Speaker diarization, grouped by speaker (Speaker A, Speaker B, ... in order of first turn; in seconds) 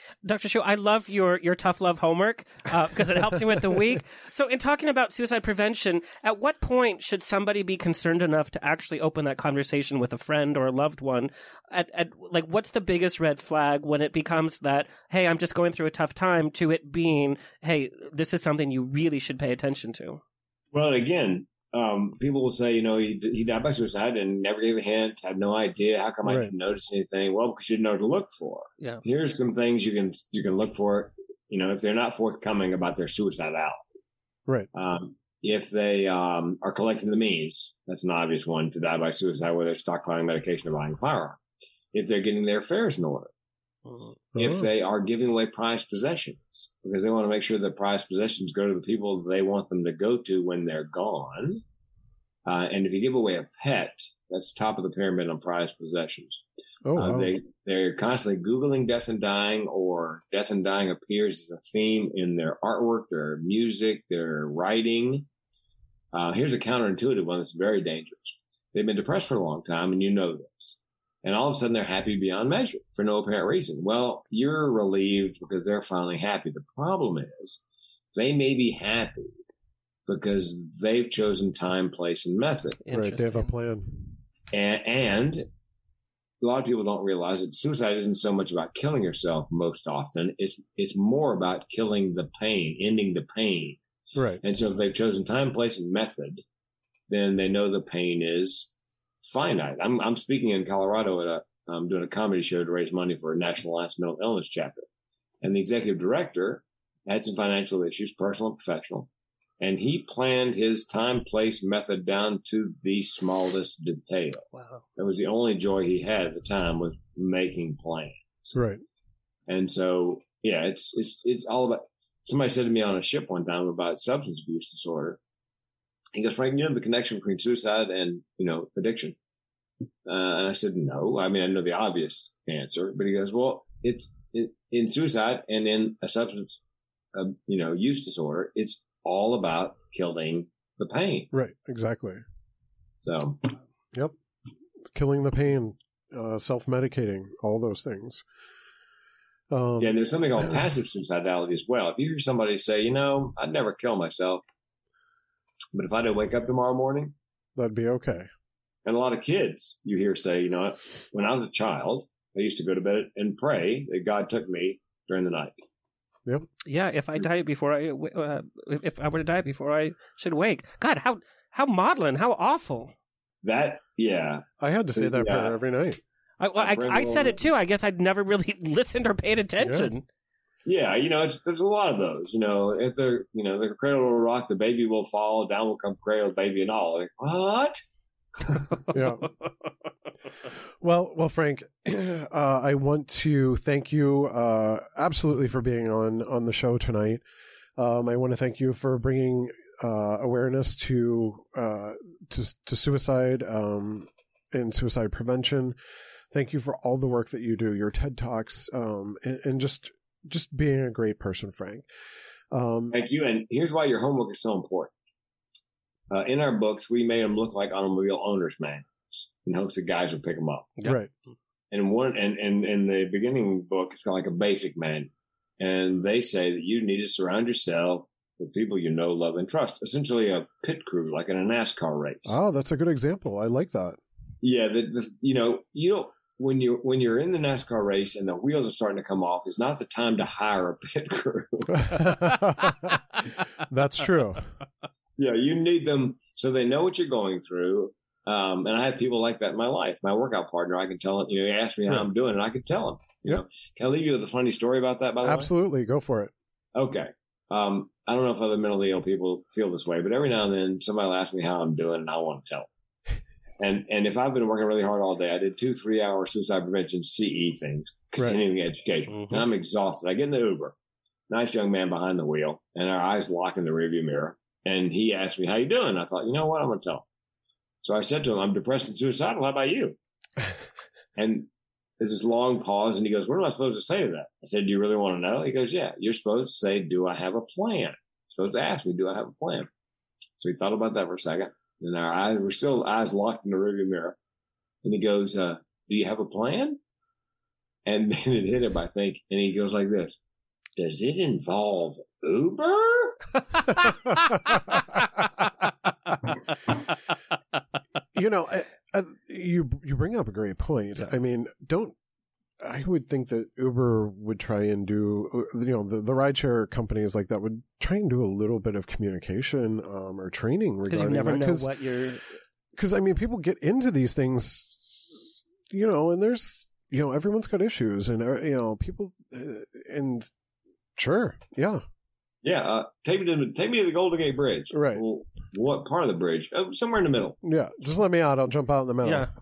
Speaker A: 0.2-20.2, 43.9-44.1, 82.8-83.5, 114.5-114.8, 166.7-172.9, 176.4-180.0, 320.9-322.2, 339.0-339.3
Speaker B: 20.7-33.8, 34.7-41.4, 41.9-43.3, 44.4-51.6, 52.5-56.4, 57.0-65.3, 66.1-77.6, 78.1-79.4, 80.1-82.8, 84.5-85.5, 86.4-93.8, 94.4-96.4, 97.1-98.7, 99.2-104.8, 105.4-109.1, 109.6-114.5, 115.0-118.5, 119.5-125.2, 126.1-129.2, 130.1-136.6, 137.1-141.3, 143.1-143.6, 149.8-154.4, 155.7-157.1, 158.9-165.6, 173.4-175.6, 176.6-177.4, 180.7-187.8, 188.4-188.9, 212.9-214.9, 216.1-220.8, 221.7-232.4, 234.4-242.3, 245.2-255.5, 256.7-262.7, 263.6-270.7, 271.3-277.1, 277.8-280.0, 281.2-281.5, 282.0-289.7, 290.4-294.2, 294.8-296.8, 297.9-300.2, 300.8-303.2, 332.4-337.4
Speaker C: 26.2-26.5, 44.3-44.7, 56.8-57.3, 82.9-84.2, 94.1-94.4, 118.5-118.8, 141.3-142.2, 144.9-148.2, 149.5-150.6, 157.6-158.3, 174.6-176.0, 179.6-179.9, 188.9-189.3, 190.8-197.2, 197.8-205.8, 206.3-211.9, 212.5-212.9, 220.8-221.1, 232.2-234.0, 241.7-244.5, 255.2-256.3, 308.1-311.9, 312.6-321.7, 322.8-330.3, 331.0-331.8, 334.7-335.0, 337.4-339.3